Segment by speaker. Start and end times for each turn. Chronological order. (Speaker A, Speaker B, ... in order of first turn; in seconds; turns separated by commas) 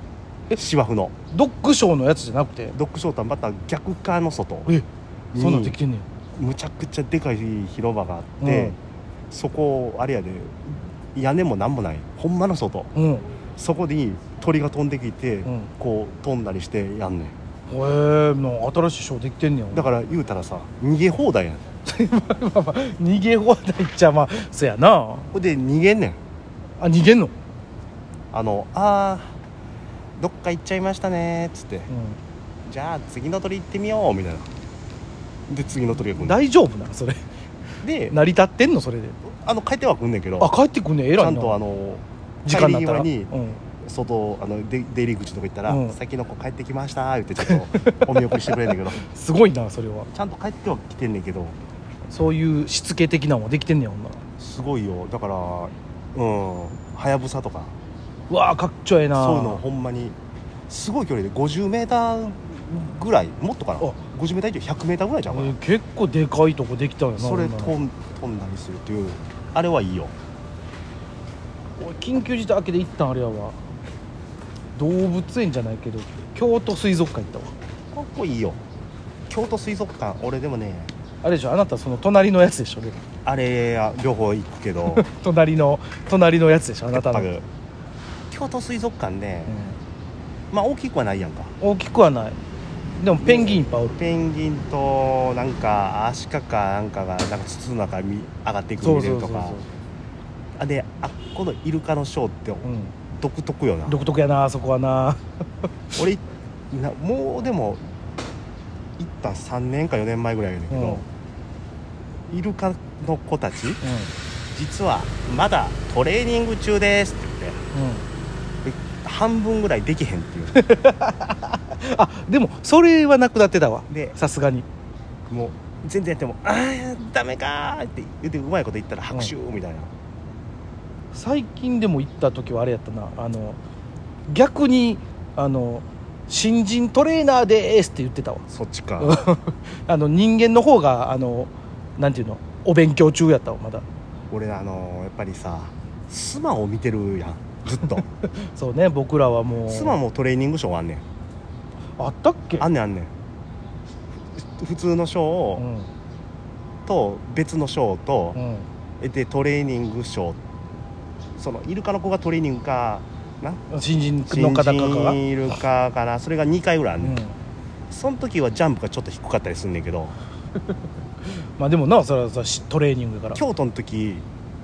Speaker A: 0.5-1.1, Speaker B: 1.3-2.8, Speaker A: 2.7-4.7, Speaker B: 4.7-6.1, Speaker A: 5.3-5.8, Speaker A: 6.3-8.8, Speaker B: 8.4-8.8, Speaker A: 9.3-12.9, Speaker B: 12.9-13.3, Speaker A: 13.6-17.4, Speaker B: 15.4-15.7, Speaker B: 17.7-19.9, Speaker A: 19.7-21.6, Speaker B: 21.9-25.3, Speaker A: 25.3-26.2, Speaker B: 26.8-27.3, Speaker A: 28.3-29.4, Speaker A: 30.2-31.9, Speaker B: 31.9-32.2, Speaker A: 32.6-34.5, Speaker A: 35.5-36.4, Speaker B: 36.1-37.2, Speaker A: 37.8-38.2, Speaker B: 38.1-39.2, Speaker A: 39.2-40.5, Speaker B: 40.4-41.6, Speaker A: 41.2-43.3, Speaker B: 42.5-43.6, Speaker A: 43.8-49.0, Speaker B: 45.7-46.0, Speaker B: 47.5-50.1, Speaker A: 50.1-51.6, Speaker B: 52.1-54.2, Speaker A: 54.4-57.7, Speaker B: 58.3-59.6, Speaker A: 59.1-60.2, Speaker A: 60.7-65.6, Speaker B: 65.3-67.8, Speaker A: 67.2-70.1, Speaker B: 71.8-73.6, Speaker B: 74.8-77.5, Speaker A: 77.9-78.6, Speaker A: 79.3-80.9, Speaker B: 81.2-83.0, Speaker A: 83.2-85.1, Speaker B: 84.8-87.3, Speaker A: 86.9-87.5, Speaker A: 88.3-89.6, Speaker B: 89.5-89.8, Speaker A: 90.5-91.5, Speaker B: 91.6-92.4, Speaker B: 93.0-94.0, Speaker A: 93.2-99.6, Speaker B: 98.8-99.7, Speaker A: 100.6-104.0, Speaker B: 102.6-103.0, Speaker B: 103.9-105.2, Speaker A: 106.0-107.8, Speaker A: 109.0-111.0, Speaker B: 110.7-111.0, Speaker A: 112.3-113.8, Speaker B: 113.8-114.1, Speaker A: 114.5-117.6, Speaker B: 117.7-118.1, Speaker A: 118.6-120.7, Speaker B: 120.6-124.7, Speaker A: 123.9-124.2, Speaker A: 125.3-129.9, Speaker B: 131.1-133.6, Speaker B: 134.3-138.5, Speaker A: 138.5-139.2, Speaker B: 139.0-143.8, Speaker A: 144.3-148.1, Speaker B: 147.9-150.0, Speaker A: 149.7-151.0, Speaker B: 152.0-152.7, Speaker A: 152.6-153.1, Speaker A: 154.4-155.6, Speaker B: 155.6-155.9, Speaker A: 156.9-158.4, Speaker B: 158.3-158.7, Speaker A: 159.0-160.4, Speaker A: 161.4-163.6, Speaker B: 163.7-165.2, Speaker A: 164.3-167.2, Speaker B: 167.0-167.4, Speaker A: 167.9-170.2, Speaker B: 171.3-173.4, Speaker A: 173.3-174.3